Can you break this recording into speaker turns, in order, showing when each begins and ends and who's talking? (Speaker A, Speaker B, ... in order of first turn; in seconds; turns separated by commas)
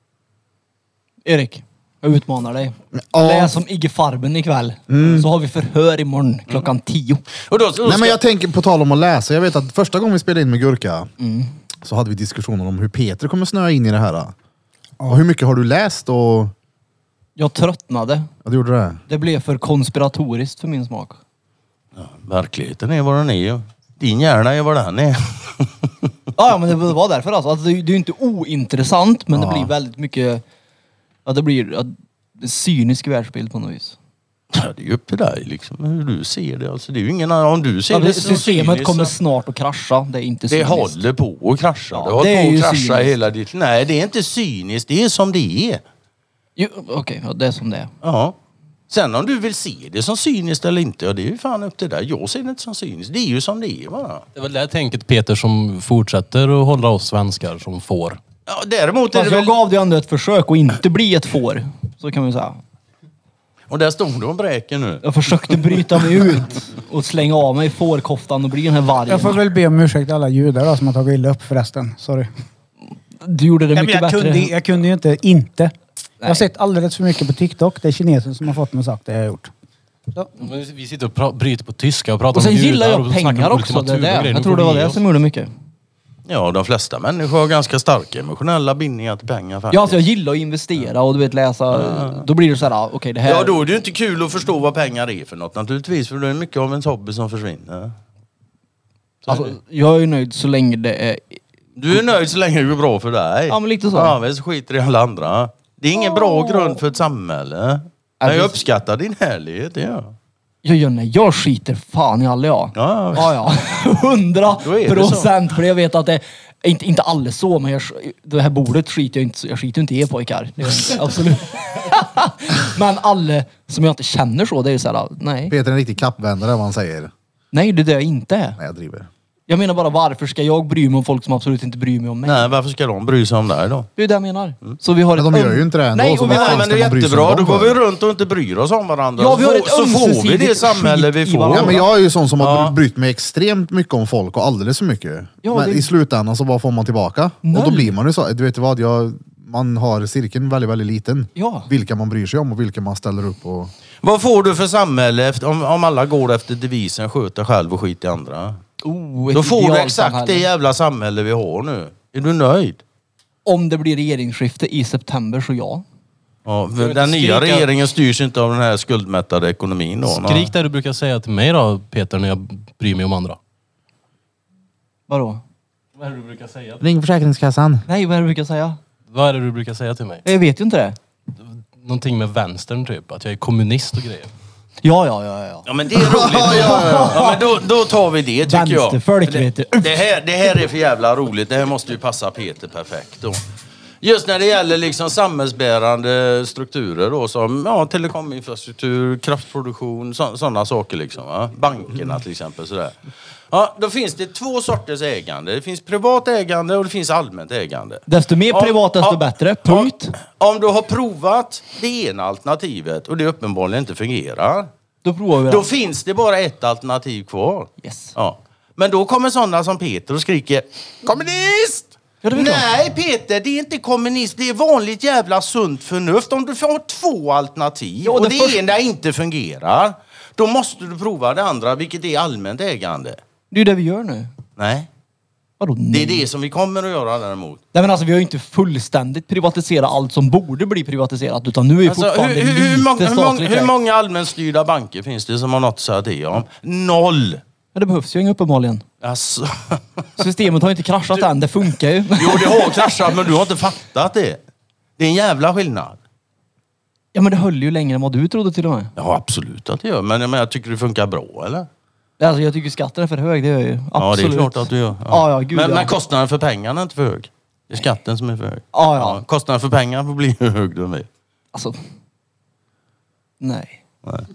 Speaker A: 1.2-7.2, Speaker B: 3.1-3.6, Speaker B: 4.9-5.3, Speaker C: 7.5-8.2, Speaker B: 7.8-11.1, Speaker A: 11.2-11.5, Speaker B: 11.8-14.3, Speaker B: 15.1-16.5, Speaker A: 17.4-18.3, Speaker B: 18.4-19.0, Speaker A: 19.1-21.2, Speaker C: 22.0-26.1, Speaker A: 26.4-30.4, Speaker B: 29.3-29.7, Speaker A: 31.3-34.0, Speaker C: 34.5-39.1, Speaker A: 37.9-41.0, Speaker C: 40.5-45.8, Speaker A: 41.9-43.1, Speaker A: 46.6-47.9, Speaker C: 48.0-48.4, Speaker C: 48.9-54.2, Speaker D: 54.4-58.2, Speaker C: 58.5-59.6, Speaker A: 59.1-62.6, Speaker C: 63.7-65.7, Speaker A: 65.0-69.4, Speaker E: 69.1-72.3, Speaker A: 73.2-74.5, Speaker E: 73.7-75.7, Speaker E: 76.2-79.5, Speaker D: 80.4-85.0, Speaker A: 82.3-85.5, Speaker C: 86.3-90.0, Speaker A: 89.7-93.6, Speaker C: 91.7-92.3, Speaker C: 93.2-98.0, Speaker C: 99.2-99.5, Speaker A: 99.3-101.4, Speaker C: 101.8-110.2, Speaker A: 103.5-104.2, Speaker A: 106.0-106.8, Speaker A: 108.2-108.6, Speaker A: 110.6-125.5, Speaker C: 112.8-113.4, Speaker C: 114.6-115.4, Speaker B: 125.5-127.1, Speaker A: 127.5-128.6, Speaker B: 128.6-129.1, Speaker A: 129.5-132.6, Speaker C: 132.2-133.9, Speaker A: 134.0-136.9, Speaker B: 135.1-137.8, Speaker C: 136.3-141.8, Speaker A: 139.2-141.8, Speaker B: 141.5-153.7, Speaker C: 142.4-142.8, Speaker A: 145.4-145.9, Speaker A: 147.4-147.9, Speaker A: 151.4-151.7, Speaker C: 154.0-158.6, Speaker A: 158.8-160.5, Speaker C: 159.3-162.8, Speaker A: 163.4-165.8, Speaker C: 166.5-170.5, Speaker D: 166.8-167.7, Speaker D: 170.1-173.4, Speaker A: 175.1-175.4, Speaker D: 176.0-176.8, Speaker B: 176.8-177.8, Speaker A: 177.9-178.8, Speaker D: 179.1-180.2, Speaker A: 180.2-181.0, Speaker D: 181.4-184.3, Speaker A: 184.8-187.5, Speaker C: 185.7-193.4, Speaker B: 185.9-187.2, Speaker A: 188.5-190.1, Speaker C: 194.0-202.9, Speaker C: 203.5-214.7, Speaker A: 208.1-210.2, Speaker A: 215.0-215.7, Speaker C: 215.5-233.2, Speaker A: 217.8-218.1, Speaker A: 222.2-222.7, Speaker A: 228.0-228.6, Speaker A: 233.5-234.3, Speaker C: 234.6-234.9, Speaker A: 235.6-236.3, Speaker C: 235.9-237.6, Speaker A: 237.7-243.7, Speaker C: 241.8-247.4, Speaker A: 247.8-248.8, Speaker C: 249.0-250.1, Speaker A: 250.2-253.0, Speaker C: 252.1-254.4, Speaker C: 255.0-256.0, Speaker A: 257.1-258.9, Speaker C: 259.0-261.7, Speaker A: 262.2-265.9, Speaker C: 264.0-271.1, Speaker A: 268.7-269.2, Speaker A: 273.4-273.8